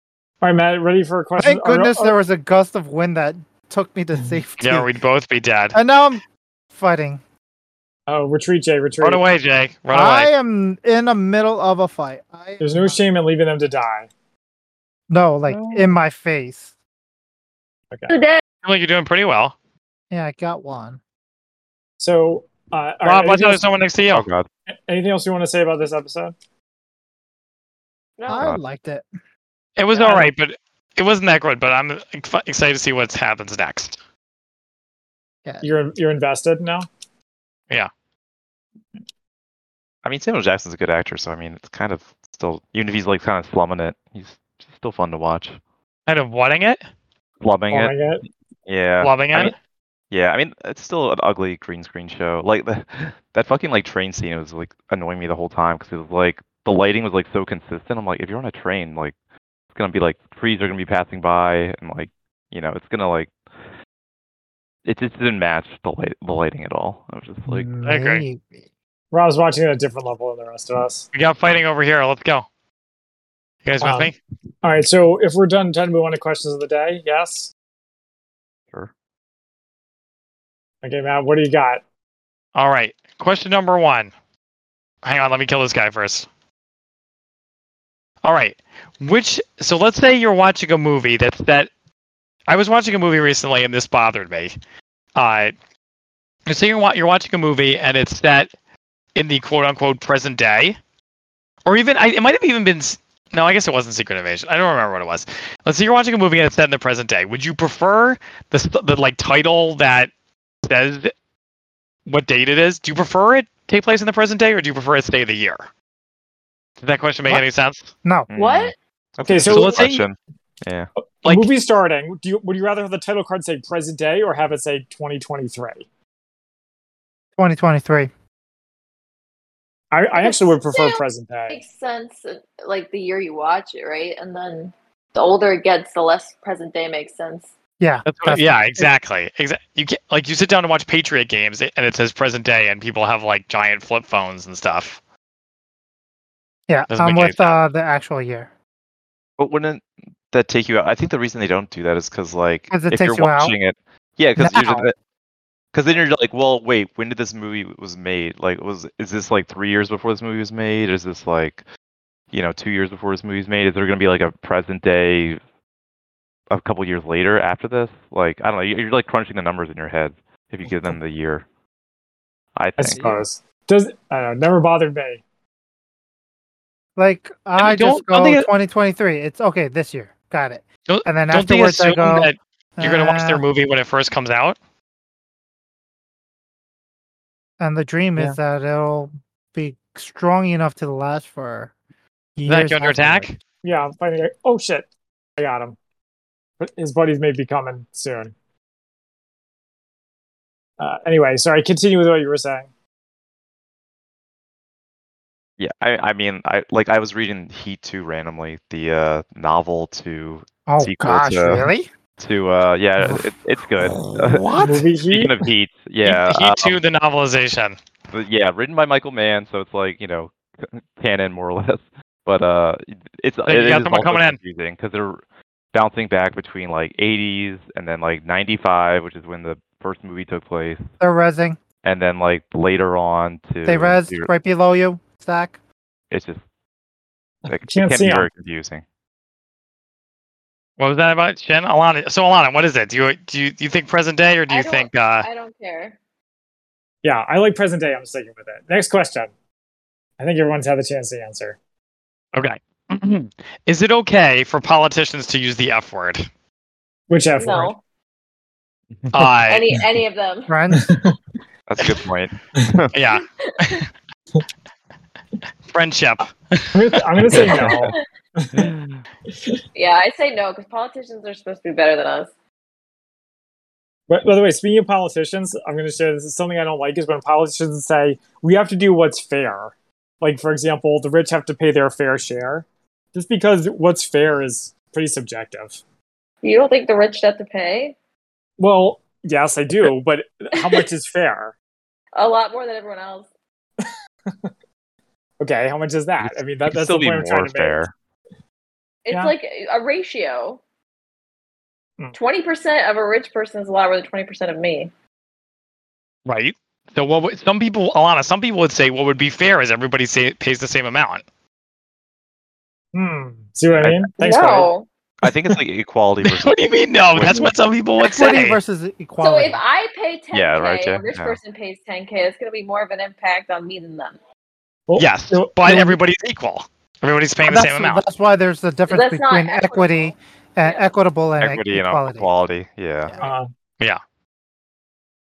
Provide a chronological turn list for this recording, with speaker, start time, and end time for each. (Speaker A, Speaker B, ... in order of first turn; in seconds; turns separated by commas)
Speaker A: 0.4-2.1, Speaker B: 1.4-4.9, Speaker C: 4.6-5.8, Speaker B: 5.7-7.2, Speaker A: 8.1-9.2, Speaker C: 9.0-10.3, Speaker B: 9.9-13.0, Speaker A: 12.6-14.1, Speaker B: 15.1-16.7, Speaker A: 15.5-15.9, Speaker D: 18.1-18.4, Speaker C: 18.6-19.5, Speaker B: 20.1-21.0, Speaker A: 22.0-23.6, Speaker C: 23.0-24.2, Speaker E: 24.1-24.5, Speaker A: 24.7-26.3, Speaker D: 28.2-28.5, Speaker B: 28.2-29.1, Speaker C: 29.8-34.0, Speaker A: 29.9-30.3, Speaker A: 35.6-36.9, Speaker E: 40.0-45.6, Speaker C: 46.1-46.8, Speaker E: 47.4-48.0, Speaker A: 47.7-48.2, Speaker E: 48.6-49.5, Speaker C: 49.0-49.5, Speaker E: 50.1-59.1, Speaker E: 59.7-63.3, Speaker E: 64.8-67.7, Speaker B: 67.5-68.7, Speaker C: 67.8-68.2, Speaker A: 69.1-71.1, Speaker C: 71.1-72.5, Speaker C: 73.6-74.2, Speaker A: 73.8-74.1, Speaker A: 74.6-77.5, Speaker A: 80.8-81.8, Speaker C: 82.5-84.1, Speaker C: 85.0-86.2, Speaker C: 88.2-91.7, Speaker C: 92.5-94.5, Speaker C: 95.1-95.5, Speaker C: 96.5-98.5, Speaker C: 99.1-100.8, Speaker C: 101.7-110.1, Speaker C: 110.6-111.1, Speaker C: 112.0-115.7, Speaker C: 116.8-117.9, Speaker B: 118.0-118.3, Speaker E: 118.3-120.9, Speaker D: 118.3-118.7, Speaker A: 119.2-119.8, Speaker C: 119.4-120.0, Speaker C: 121.2-121.5, Speaker A: 121.2-125.8, Speaker B: 127.4-128.1, Speaker A: 129.9-131.6, Speaker D: 130.2-137.5, Speaker B: 137.8-138.9, Speaker C: 138.1-145.0, Speaker B: 146.7-148.5, Speaker C: 146.9-147.6, Speaker E: 149.4-154.9, Speaker B: 152.7-153.6, Speaker B: 154.4-154.9, Speaker E: 155.7-161.6, Speaker E: 162.3-165.4, Speaker E: 166.5-171.4, Speaker A: 170.7-170.9, Speaker E: 172.5-173.0, Speaker A: 172.8-175.2, Speaker B: 176.9-183.4, Speaker C: 177.6-178.5, Speaker C: 180.9-184.6, Speaker B: 187.6-191.7, Speaker B: 192.4-193.3, Speaker C: 192.5-193.3, Speaker A: 193.6-195.8, Speaker A: 196.6-198.3, Speaker A: 200.8-202.7, Speaker E: 205.6-216.8, Speaker B: 210.7-211.9, Speaker B: 213.0-213.2, Speaker B: 214.3-214.7, Speaker A: 214.6-215.4, Speaker C: 216.0-217.8, Speaker E: 218.1-225.2, Speaker C: 223.4-224.4, Speaker E: 225.7-230.8, Speaker B: 231.0-231.6, Speaker E: 231.8-234.3, Speaker B: 233.7-235.6, Speaker E: 236.1-236.4, Speaker A: 237.5-238.3, Speaker E: 237.5-238.8, Speaker C: 240.8-245.3, Speaker D: 244.5-246.0, Speaker A: 247.0-249.3, Speaker A: 250.2-251.6, Speaker C: 252.3-256.3, Speaker A: 257.1-257.7, Speaker D: 257.4-257.8, Speaker C: 259.1-259.6, Speaker D: 259.5-260.6, Speaker B: 260.5-260.9, Speaker A: 260.7-261.2, Speaker E: 261.7-262.9, Speaker C: 262.9-263.9, Speaker D: 263.4-263.8, Speaker C: 265.7-267.0, Speaker A: 266.7-268.7, Speaker E: 267.2-267.9, Speaker D: 267.4-268.0, Speaker E: 268.5-269.0, Speaker A: 269.3-269.6, Speaker D: 269.7-272.3, Speaker A: 274.1-285.8, Speaker D: 286.4-287.9, Speaker A: 288.6-291.5, Speaker D: 290.6-290.8, Speaker D: 292.1-293.3, Speaker A: 293.8-294.5, Speaker A: 295.4-297.9, Speaker E: 296.2-297.9, Speaker D: 299.0-300.6, Speaker D: 302.1-304.9, Speaker C: 306.2-311.2, Speaker A: 312.9-314.7, Speaker E: 313.7-314.1, Speaker D: 314.2-314.9, Speaker E: 315.2-317.5, Speaker C: 316.2-318.6, Speaker B: 318.0-319.6, Speaker D: 319.2-324.2, Speaker E: 320.3-321.4, Speaker A: 324.9-325.9, Speaker C: 324.9-328.0, Speaker B: 327.4-332.3, Speaker D: 328.9-330.1, Speaker D: 330.6-330.9, Speaker E: 331.4-333.1, Speaker A: 333.2-333.5